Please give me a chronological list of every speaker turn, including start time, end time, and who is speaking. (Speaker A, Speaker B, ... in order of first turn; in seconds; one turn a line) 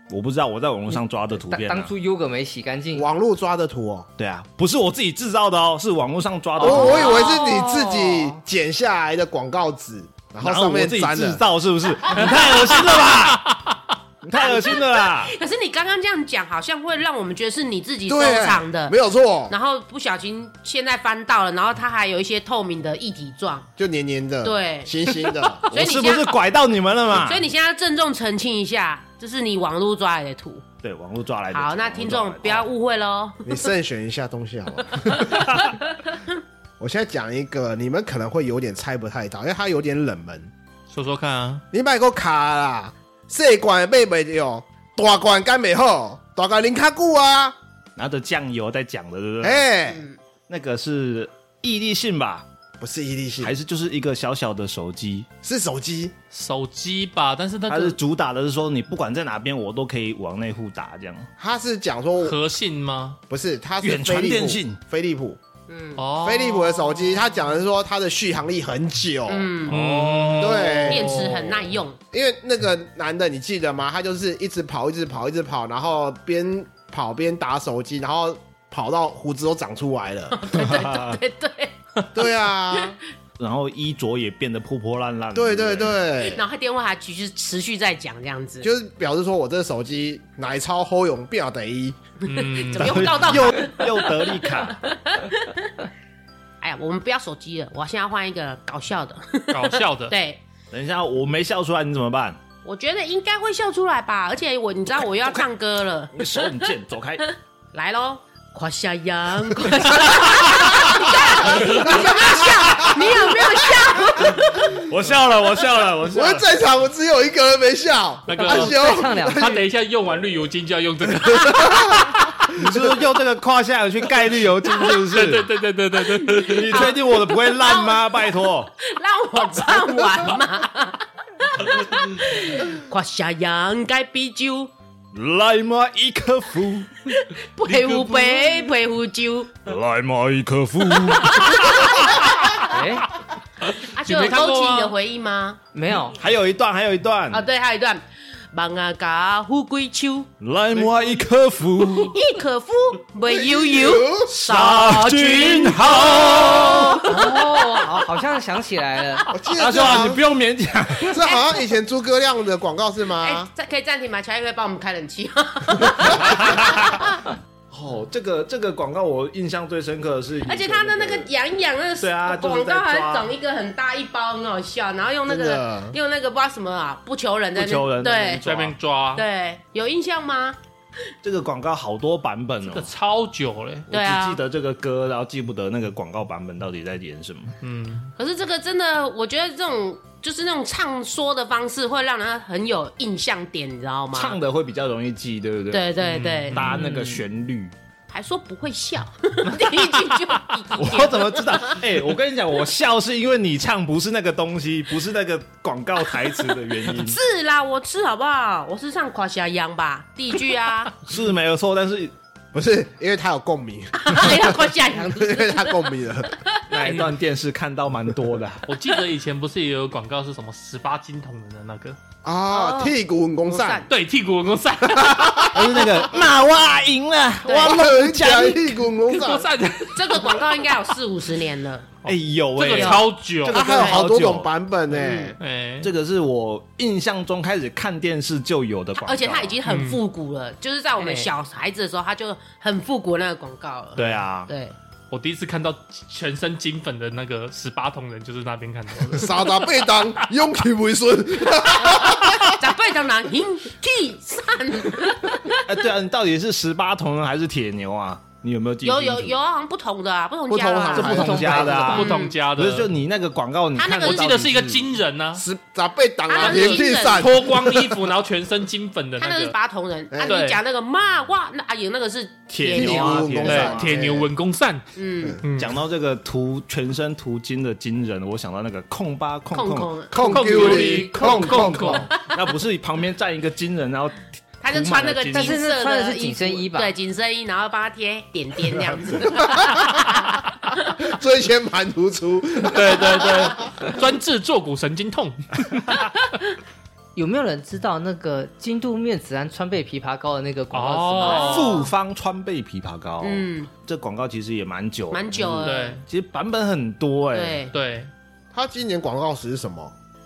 Speaker A: 0.1-1.9
Speaker B: 1.5-3.1
Speaker C: 2.9-4.1
Speaker A: 4.2-7.2
Speaker C: 6.6-11.4
Speaker B: 6.6-8.4
Speaker D: 6.7-7.5
Speaker A: 10.4-13.6
Speaker A: 14.2-15.3
Speaker D: 14.4-18.9
Speaker C: 18.1-19.5
Speaker D: 19.5-23.7
Speaker C: 23.8-25.6
Speaker D: 24.4-26.4
Speaker A: 25.7-27.4
Speaker D: 27.1-30.6
Speaker A: 30.8-32.7
Speaker D: 31.5-33.6
Speaker C: 33.4-35.5
Speaker A: 35.3-35.8
Speaker C: 36.8-40.5
Speaker E: 40.9-41.6
Speaker C: 41.7-47.5
Speaker A: 48.0-49.7
Speaker C: 49.4-50.0
Speaker D: 49.9-50.2
Speaker A: 50.5-52.5
Speaker C: 52.8-53.5
Speaker A: 53.4-55.3
Speaker C: 55.4-56.1
Speaker E: 56.3-58.0
Speaker A: 57.7-61.3
Speaker C: 61.4-62.4
Speaker E: 62.2-63.2
Speaker C: 63.3-65.4
Speaker A: 63.8-64.8
Speaker D: 65.7-66.0
Speaker E: 66.0-67.0
Speaker C: 66.2-69.8
Speaker D: 69.3-69.8
Speaker A: 69.7-71.5
Speaker E: 69.9-70.5
Speaker C: 70.3-71.2
Speaker D: 70.8-72.0
Speaker C: 72.1-80.4
Speaker D: 80.3-82.0
Speaker A: 80.5-81.2
Speaker C: 82.1-83.0
Speaker A: 83.4-86.0
Speaker C: 85.3-86.4
Speaker D: 86.2-88.7
Speaker C: 88.6-92.0
Speaker D: 92.2-95.9
Speaker E: 92.2-93.3
Speaker A: 92.7-94.8
Speaker D: 96.6-100.4
Speaker E: 99.5-100.1
Speaker A: 100.7-102.4
Speaker D: 102.6-106.7
Speaker A: 106.1-107.2
Speaker D: 107.2-114.8
Speaker C: 111.4-113.3
Speaker A: 114.8-116.4
Speaker C: 116.1-119.6
Speaker E: 118.3-122.3
Speaker B: 118.3-119.6
Speaker C: 121.3-122.1
Speaker A: 122.5-125.5
Speaker E: 124.8-126.9
Speaker D: 126.3-134.7
Speaker A: 126.4-128.7
Speaker A: 135.1-137.0
Speaker D: 137.1-139.6
Speaker E: 137.7-138.6
Speaker A: 139.7-142.5
Speaker D: 141.2-142.3
Speaker B: 142.6-143.1
Speaker E: 143.8-144.9
Speaker D: 143.8-145.6
Speaker B: 145.7-146.2
Speaker A: 146.2-147.4
Speaker D: 147.3-150.3
Speaker A: 150.4-152.2
Speaker D: 151.9-158.0
Speaker C: 153.2-154.3
Speaker A: 154.3-157.1
Speaker B: 157.0-159.3
Speaker C: 159.3-160.2
Speaker A: 159.5-161.2
Speaker C: 161.1-163.5
Speaker D: 161.1-161.6
Speaker D: 163.2-167.2
Speaker A: 166.1-167.1
Speaker A: 167.7-171.3
Speaker D: 170.4-178.4
Speaker A: 172.0-173.3
Speaker C: 175.3-175.9
Speaker A: 177.5-178.8
Speaker E: 178.4-179.2
Speaker D: 179.1-180.6
Speaker A: 181.2-182.9
Speaker E: 182.6-183.9
Speaker A: 183.9-187.5
Speaker D: 183.9-184.4
Speaker E: 187.6-188.1
Speaker D: 188.2-194.4
Speaker A: 194.1-195.9
Speaker D: 195.7-196.7
Speaker E: 196.0-196.9
Speaker A: 196.5-197.7
Speaker D: 198.1-201.8
Speaker E: 199.6-200.4
Speaker A: 200.8-207.2
Speaker D: 206.8-210.9
Speaker A: 211.0-212.1
Speaker C: 212.5-216.3
Speaker D: 213.9-216.7
Speaker A: 216.7-218.7
Speaker E: 216.8-217.1
Speaker E: 218.6-222.0
Speaker C: 222.2-223.8
Speaker D: 222.5-222.9
Speaker D: 223.5-223.9
Speaker E: 223.9-225.8
Speaker C: 224.9-226.0
Speaker A: 225.5-228.8
Speaker D: 227.4-227.8
Speaker C: 227.5-229.5
Speaker E: 229.1-230.7
Speaker D: 229.9-231.9
Speaker E: 232.0-233.6
Speaker A: 232.1-234.5
Speaker D: 232.7-233.1
Speaker C: 233.5-235.4
Speaker D: 233.6-234.0
Speaker D: 234.9-235.3
Speaker E: 235.4-235.9
Speaker A: 235.8-239.6
Speaker D: 239.0-244.7
Speaker E: 239.7-240.0
Speaker B: 241.0-241.3
Speaker A: 243.9-244.5
Speaker E: 245.1-249.7
Speaker C: 249.1-252.6
Speaker D: 252.6-255.6
Speaker A: 255.6-259.4
Speaker D: 258.8-262.4
Speaker C: 260.5-261.7
Speaker A: 260.9-264.9
Speaker B: 261.0-262.1
Speaker E: 261.8-262.9
Speaker D: 263.8-264.3
Speaker E: 263.9-265.4
Speaker C: 265.4-267.9
Speaker D: 266.3-267.4
Speaker E: 266.4-269.5
Speaker D: 269.2-273.5
Speaker C: 270.1-270.4
Speaker E: 270.2-270.6
Speaker A: 272.5-273.9
Speaker C: 272.7-274.3
Speaker E: 273.4-274.9
Speaker D: 274.9-275.4
Speaker E: 275.4-275.8
Speaker A: 275.6-279.9
Speaker D: 279.5-282.0
Speaker C: 280.1-282.1
Speaker E: 280.2-282.1
Speaker A: 281.1-285.6
Speaker D: 284.6-290.9
Speaker B: 285.3-286.9
Speaker C: 289.4-289.9
Speaker C: 291.0-293.5
Speaker E: 292.6-295.5
Speaker B: 297.1-301.7
Speaker E: 300.7-301.9
Speaker D: 301.2-301.9
Speaker A: 301.2-307.6
Speaker D: 303.2-303.7
Speaker D: 305.1-306.0
Speaker E: 305.6-306.0
Speaker D: 307.3-307.7
Speaker E: 307.7-308.1
Speaker C: 308.5-309.9